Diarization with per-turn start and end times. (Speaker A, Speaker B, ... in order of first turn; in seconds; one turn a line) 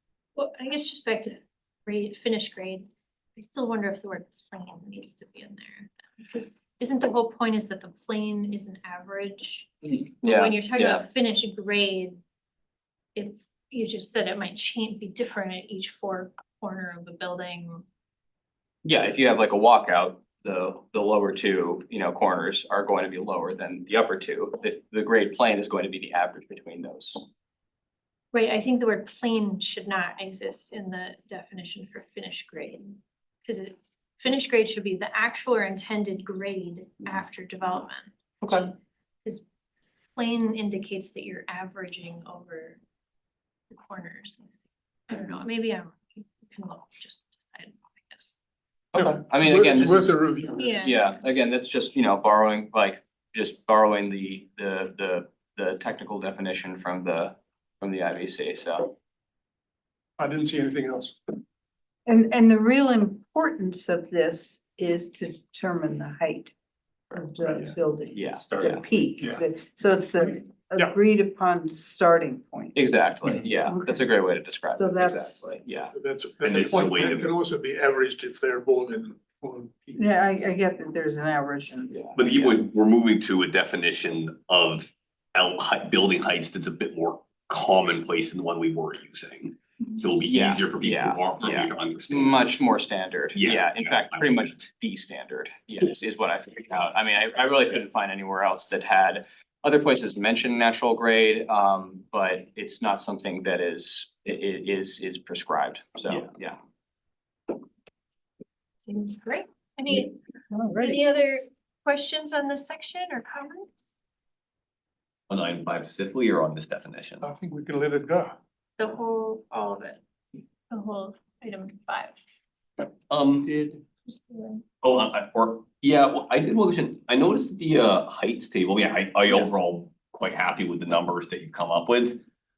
Speaker A: 0.3-12.2
Speaker B: 9.8-11.1
Speaker A: 13.1-17.8
Speaker B: 18.8-27.2
Speaker A: 28.3-38.1
Speaker A: 40.1-42.8
Speaker A: 43.7-48.4
Speaker B: 48.9-50.2
Speaker C: 48.9-50.8
Speaker A: 50.6-51.0
Speaker B: 50.8-58.9
Speaker C: 60.2-61.1
Speaker D: 62.0-66.5
Speaker D: 67.1-72.9
Speaker B: 68.1-68.8
Speaker B: 72.7-75.9
Speaker D: 73.5-74.1
Speaker D: 74.8-75.5
Speaker C: 75.9-80.0
Speaker E: 76.4-77.3
Speaker D: 80.0-81.9
Speaker B: 81.9-82.6
Speaker E: 82.2-92.6
Speaker B: 90.2-106.6
Speaker E: 93.3-94.5
Speaker A: 108.8-110.2
Speaker D: 110.5-111.0
Speaker A: 110.8-113.9
Speaker E: 115.3-117.2
Speaker C: 117.2-118.4
Speaker A: 118.8-120.0
Speaker A: 120.7-122.2
Speaker E: 123.1-123.5
Speaker A: 124.0-124.6
Speaker E: 124.8-132.2